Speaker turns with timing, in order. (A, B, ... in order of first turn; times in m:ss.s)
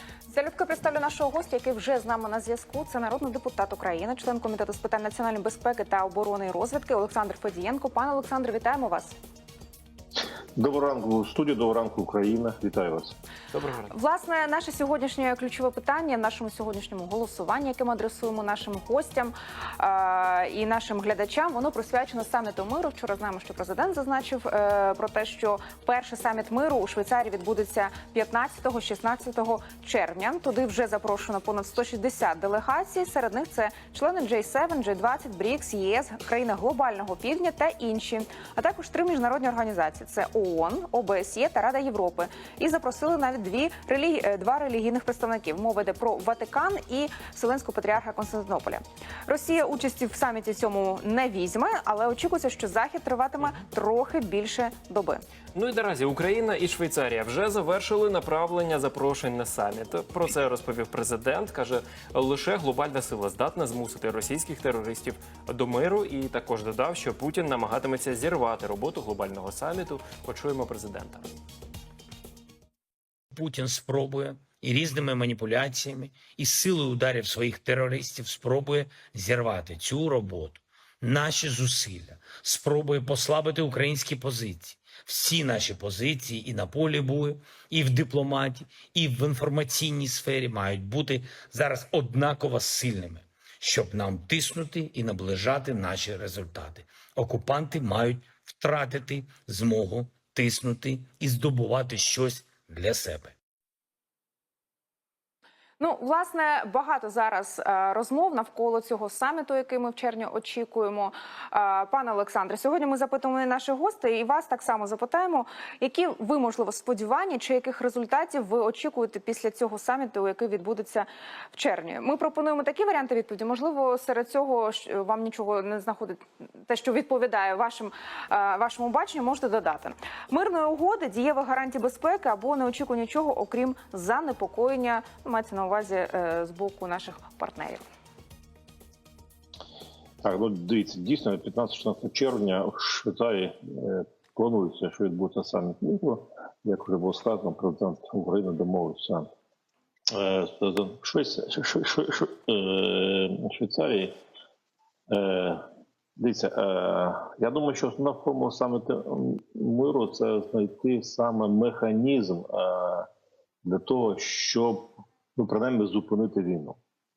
0:00.3-0:09.1 A
0:10.6-0:13.1 B
0:13.5-0:13.9 C
0:13.9-0:55.2 A
0:55.5-1:11.3 C
1:13.3-1:43.3 D
1:45.8-2:17.8 A
2:20.2-2:29.3 B
2:30.1-2:34.2 B
2:35.1-2:35.6 B
2:36.2-2:43.1 B
2:43.6-2:46.8 B